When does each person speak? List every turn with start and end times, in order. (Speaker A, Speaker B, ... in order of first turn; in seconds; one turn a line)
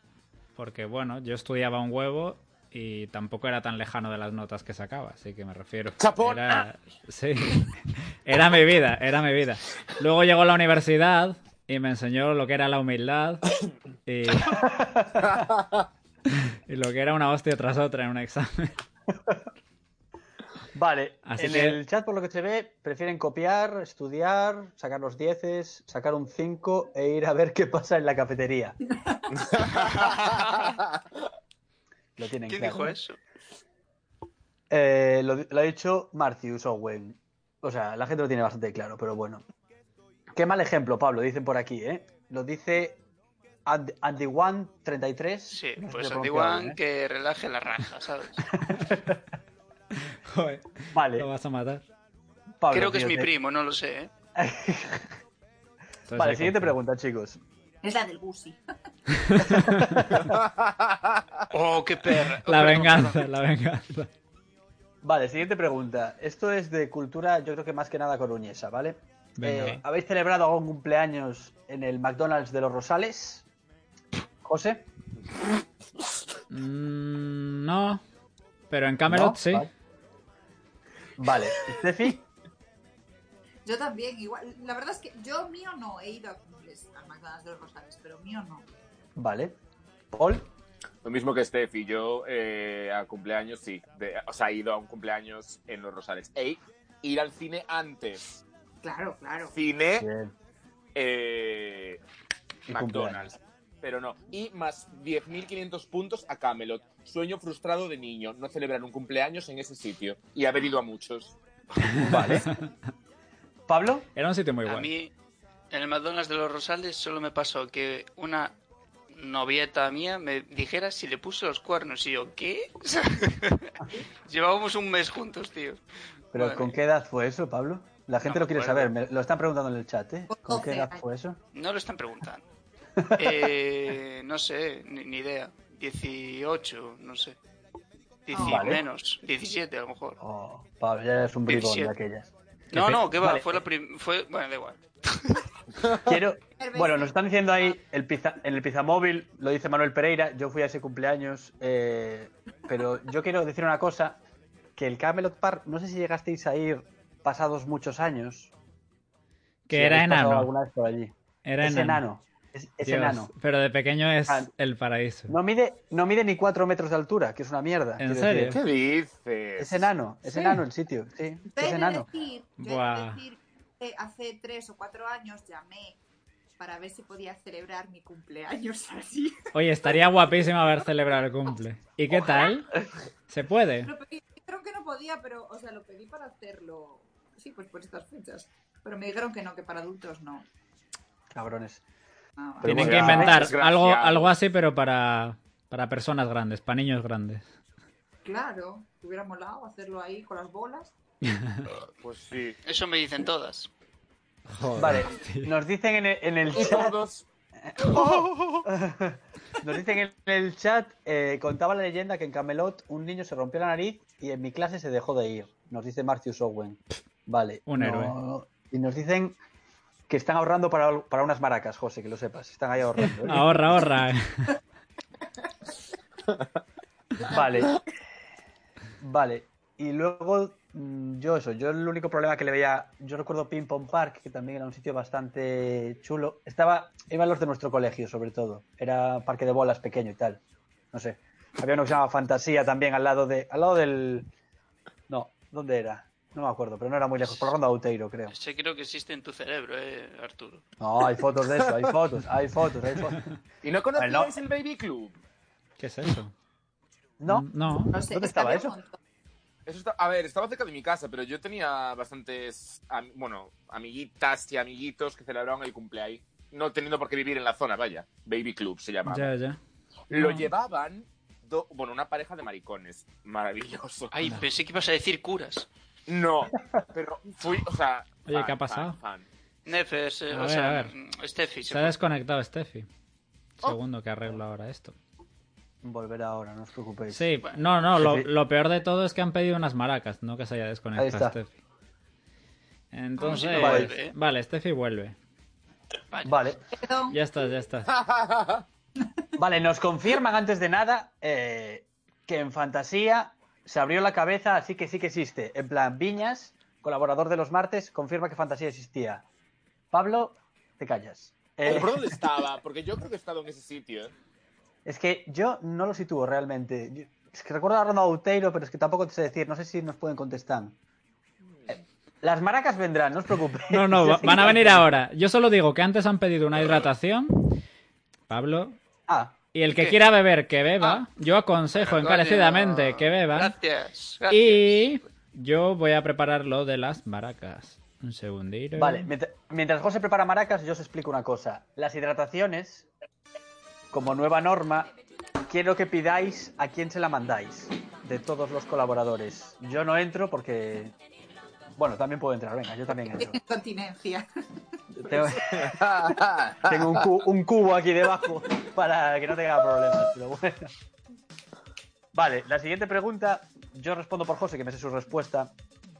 Speaker A: 0.6-14.7
Speaker B: 6.0-6.7
Speaker C: 14.5-15.4
Speaker B: 15.3-15.7
Speaker A: 16.3-18.7
Speaker C: 20.7-28.8
Speaker A: 21.2-21.8
Speaker D: 29.7-30.7
Speaker C: 32.2-33.0
Speaker D: 32.5-33.2
Speaker C: 34.7-39.4
Speaker C: 40.3-43.0
Speaker C: 43.6-46.8
Speaker D: 45.5-48.5
Speaker C: 48.5-49.2
Speaker A: 50.3-51.8
Speaker C: 50.9-51.3
Speaker C: 52.6-53.3
Speaker D: 52.7-54.1
Speaker C: 54.3-55.1
Speaker A: 56.1-56.7
Speaker C: 56.1-57.4
Speaker E: 57.8-58.6
Speaker A: 59.2-59.9
Speaker C: 59.4-60.3
Speaker B: 60.3-61.2
Speaker D: 61.5-63.2
Speaker A: 62.2-64.1
Speaker C: 65.0-73.4
Speaker A: 69.4-69.8
Speaker C: 74.4-74.9
Speaker A: 76.5-78.0
Speaker A: 78.7-79.7
Speaker C: 79.1-79.7
Speaker C: 81.2-82.2
Speaker E: 83.6-88.7
Speaker C: 89.2-89.5
Speaker C: 90.1-90.5
Speaker B: 91.0-98.4
Speaker E: 98.8-99.5
Speaker B: 99.5-100.1
Speaker C: 100.0-100.3
Speaker B: 100.9-102.0
Speaker C: 102.7-103.3
Speaker B: 102.7-111.4
Speaker A: 111.9-112.6
Speaker C: 112.0-112.5
Speaker C: 113.7-114.1
Speaker A: 114.2-114.9
Speaker D: 114.7-115.1
Speaker D: 115.7-118.5
Speaker D: 119.1-125.8
Speaker C: 126.3-131.4
Speaker D: 126.3-126.7
Speaker D: 128.2-128.8
Speaker E: 130.3-131.0
Speaker D: 131.5-132.4
Speaker C: 133.0-133.5
Speaker D: 133.1-137.4
Speaker D: 138.2-140.2
Speaker E: 138.3-138.8
Speaker C: 138.3-138.8
Speaker C: 140.2-143.6
Speaker D: 141.5-141.9
Speaker D: 142.7-145.4
Speaker B: 145.8-146.1
Speaker C: 146.0-154.2
Speaker E: 146.6-147.1
Speaker C: 154.8-158.5
Speaker A: 159.7-160.5
Speaker C: 159.7-163.3
Speaker A: 161.4-162.0
Speaker A: 162.8-165.3
Speaker C: 165.3-168.6
Speaker A: 168.0-168.6
Speaker B: 168.5-169.9
Speaker C: 169.6-172.1
Speaker A: 170.3-170.6
Speaker E: 171.5-176.0
Speaker A: 172.6-173.2
Speaker E: 176.6-179.5
Speaker A: 179.5-182.7
Speaker A: 183.3-183.9
Speaker E: 183.8-190.4
Speaker C: 191.3-191.8
Speaker E: 192.4-192.9
Speaker C: 192.6-193.4
Speaker A: 192.6-197.5
Speaker B: 192.7-194.3
Speaker E: 198.2-200.9
Speaker A: 201.3-201.7
Speaker B: 202.0-202.6
Speaker D: 202.6-203.7
Speaker A: 204.5-205.5
Speaker C: 204.7-207.0
Speaker B: 206.5-207.2
Speaker C: 207.6-219.4
Speaker D: 207.8-208.3
Speaker A: 217.7-218.1
Speaker C: 220.1-223.8
Speaker A: 223.0-224.6
Speaker E: 227.2-227.7
Speaker C: 227.3-227.8
Speaker C: 229.0-240.4
Speaker C: 240.9-244.3
Speaker C: 245.1-248.3
Speaker D: 248.3-250.6
Speaker C: 250.8-253.3
Speaker B: 253.6-255.2
Speaker C: 253.9-254.3
Speaker A: 255.8-256.3
Speaker C: 257.2-258.8
Speaker A: 257.3-258.0
Speaker E: 257.9-258.9
Speaker B: 259.6-269.3
Speaker A: 269.0-269.6
Speaker B: 270.1-274.1
Speaker A: 270.1-270.5
Speaker D: 274.1-275.7
Speaker B: 276.1-279.2
Speaker A: 278.2-279.0
Speaker D: 279.6-282.0
Speaker A: 280.3-280.9
Speaker A: 281.7-282.9
Speaker A: 283.6-284.9
Speaker C: 285.8-287.3
Speaker A: 287.1-291.5
Speaker C: 288.0-288.3
Speaker C: 290.9-291.4
Speaker A: 292.9-295.1
Speaker D: 293.2-294.1
Speaker E: 293.2-293.6
Speaker C: 293.6-293.9
Speaker D: 296.1-296.4
Speaker C: 296.2-296.7
Speaker E: 296.7-297.2
Speaker A: 297.1-297.9
Speaker B: 297.9-298.6
Speaker C: 299.4-309.2
Speaker C: 309.9-312.2
Speaker B: 311.6-314.1
Speaker C: 314.8-320.8
Speaker B: 321.5-321.8
Speaker C: 322.2-324.9
Speaker A: 323.7-327.6
Speaker A: 328.3-328.8
Speaker C: 329.1-329.4
Speaker A: 329.5-333.5
Speaker D: 329.7-330.0
Speaker D: 331.8-334.9
Speaker A: 334.3-339.1
Speaker C: 338.8-342.9
Speaker C: 343.9-344.9
Speaker C: 345.5-350.9
Speaker C: 351.8-353.4
Speaker E: 353.1-355.3
Speaker C: 354.9-360.7
Speaker B: 355.5-357.0
Speaker C: 362.1-365.5